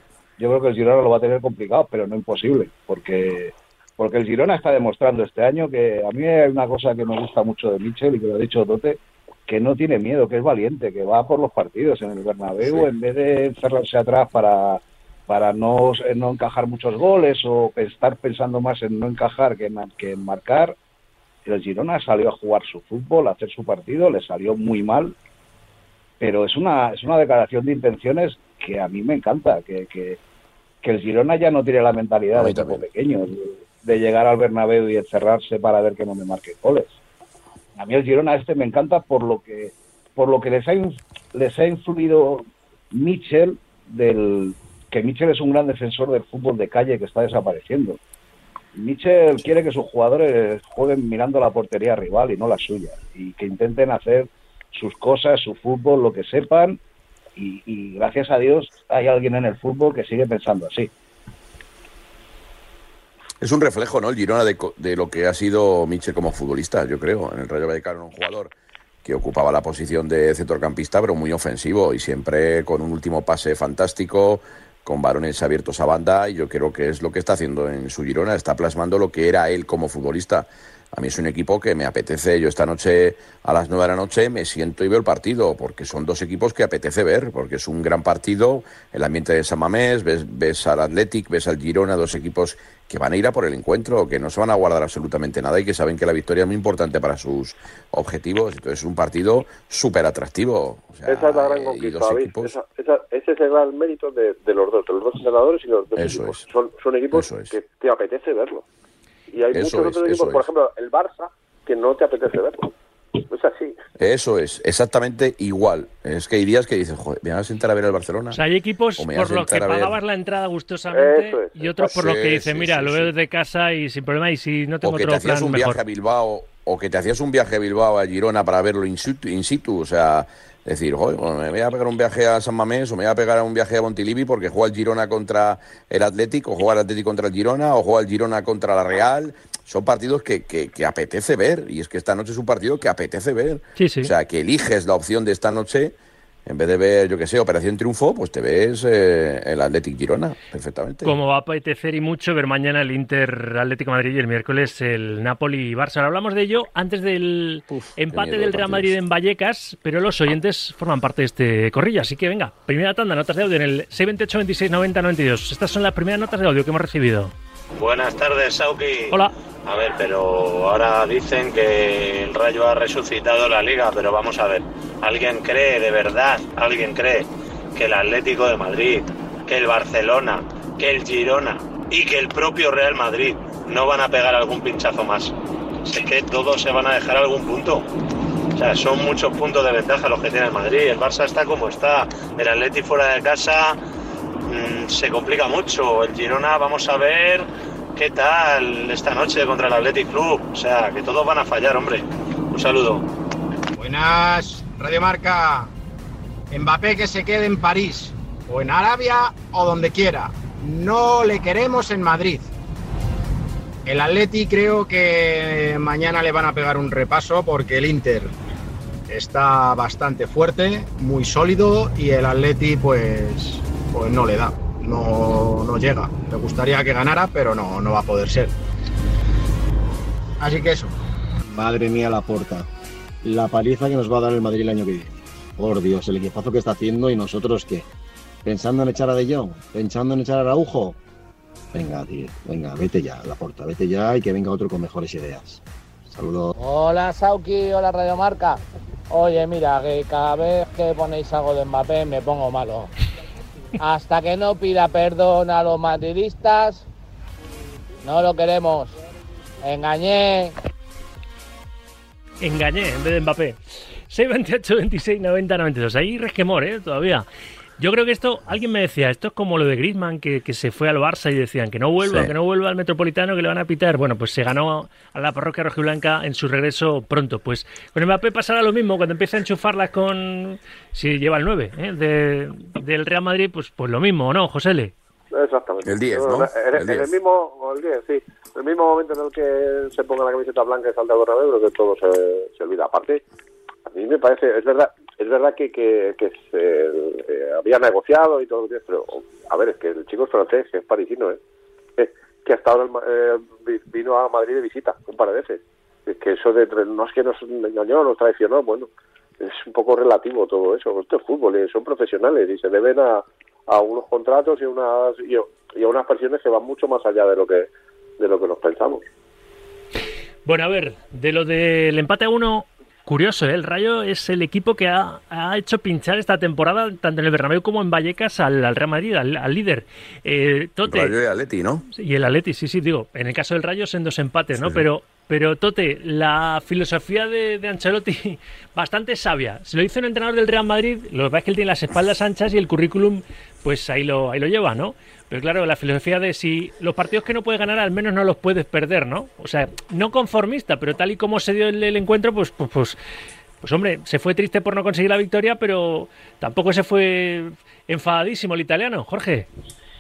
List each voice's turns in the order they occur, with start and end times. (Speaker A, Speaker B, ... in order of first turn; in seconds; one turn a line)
Speaker A: 0.4-20.8
Speaker A: 21.4-25.1
Speaker A: 26.2-30.2
Speaker A: 30.8-36.9
Speaker B: 32.4-32.8
Speaker A: 37.8-48.0
Speaker A: 48.8-56.8
Speaker A: 57.4-60.9
Speaker B: 63.4-68.5
Speaker B: 69.0-102.6
Speaker C: 101.1-108.7
Speaker B: 106.0-106.5
Speaker B: 107.1-107.5
Speaker C: 109.3-113.8
Speaker B: 109.5-110.5
Speaker B: 114.0-118.4
Speaker D: 118.3-125.8
Speaker B: 119.0-120.0
Speaker C: 120.9-121.6
Speaker B: 121.8-123.1
Speaker B: 124.8-145.9
Speaker D: 143.8-144.1
Speaker B: 146.5-151.2
Speaker D: 151.0-167.3
Speaker B: 157.7-158.9
Speaker E: 167.8-187.9
Speaker E: 188.5-193.8
Speaker E: 194.5-203.1
Speaker F: 203.8-205.7
Speaker F: 206.5-212.5
Speaker F: 213.9-218.3
Speaker F: 219.1-228.5
Speaker F: 230.4-230.9
Speaker G: 231.5-232.7
Speaker G: 233.2-237.9
Speaker G: 238.4-241.0
Speaker G: 241.7-246.5
Speaker H: 246.6-248.6
Speaker H: 249.1-252.9
Speaker H: 253.8-256.9
Speaker H: 258.0-259.0
Speaker H: 259.6-260.6
Speaker D: 262.4-267.3
Speaker D: 267.8-284.9
Speaker B: 272.0-272.3
Speaker C: 285.3-293.2
Speaker B: 285.8-287.1
Speaker C: 293.9-301.4
Speaker C: 302.0-308.9
Speaker C: 309.4-319.0
Speaker D: 320.5-331.1
Speaker B: 330.8-331.8
Speaker D: 331.9-353.0
Speaker B: 334.6-334.8
Speaker D: 353.6-359.5